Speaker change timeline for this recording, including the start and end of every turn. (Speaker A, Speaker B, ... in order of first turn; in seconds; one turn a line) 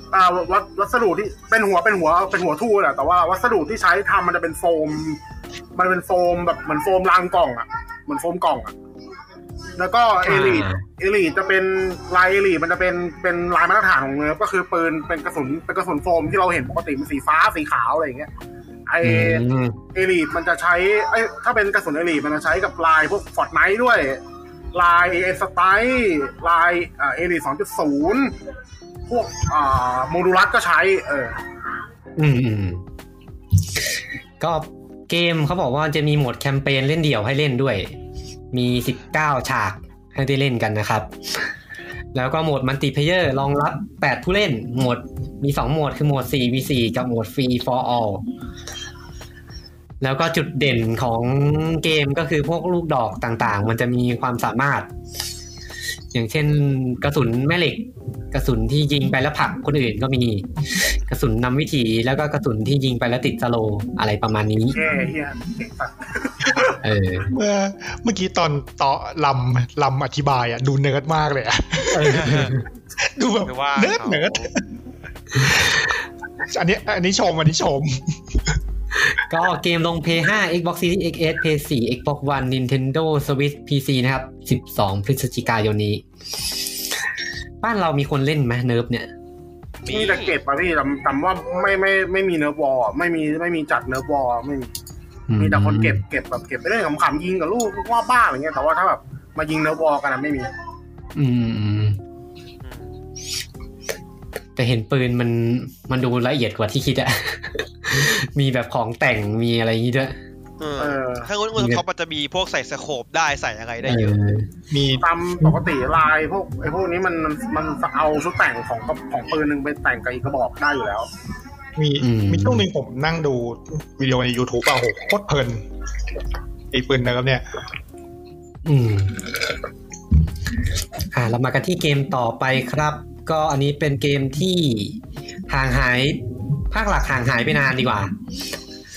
Speaker A: 0.1-5.2
Speaker A: 5.8-8.8
Speaker A: 9.8-18.3
Speaker B: 10.2-10.8
Speaker A: 18.9-24.2
Speaker B: 19.0-19.8
Speaker A: 24.7-28.3
Speaker A: 29.1-31.4
Speaker B: 32.2-32.8
Speaker B: 34.4-37.9
Speaker B: 38.5-41.5
Speaker B: 42.1-48.2
Speaker B: 50.0-54.9
Speaker B: 56.1-64.8
Speaker A: 64.7-66.8
Speaker B: 66.8-67.3
Speaker C: 67.3-74.6
Speaker B: 71.9-72.6
Speaker D: 72.0-72.6
Speaker D: 73.5-74.5
Speaker C: 75.4-75.7
Speaker C: 76.5-78.5
Speaker B: 79.2-86.0
Speaker B: 87.6-89.1
Speaker D: 89.9-90.4
Speaker A: 89.9-94.7
Speaker B: 95.3-96.0
Speaker A: 95.4-100.5
Speaker B: 101.2-102.0
Speaker D: 102.6-103.0
Speaker B: 104.6-110.2
Speaker D: 110.6-114.2
Speaker A: 110.8-111.3
Speaker B: 111.6-111.8
Speaker B: 113.8-114.5
Speaker C: 114.7-115.1
Speaker A: 115.0-121.1
Speaker C: 121.8-125.6
Speaker B: 122.0-122.7
Speaker C: 126.7-127.5
Speaker B: 128.7-129.3
Speaker B: 131.1-138.1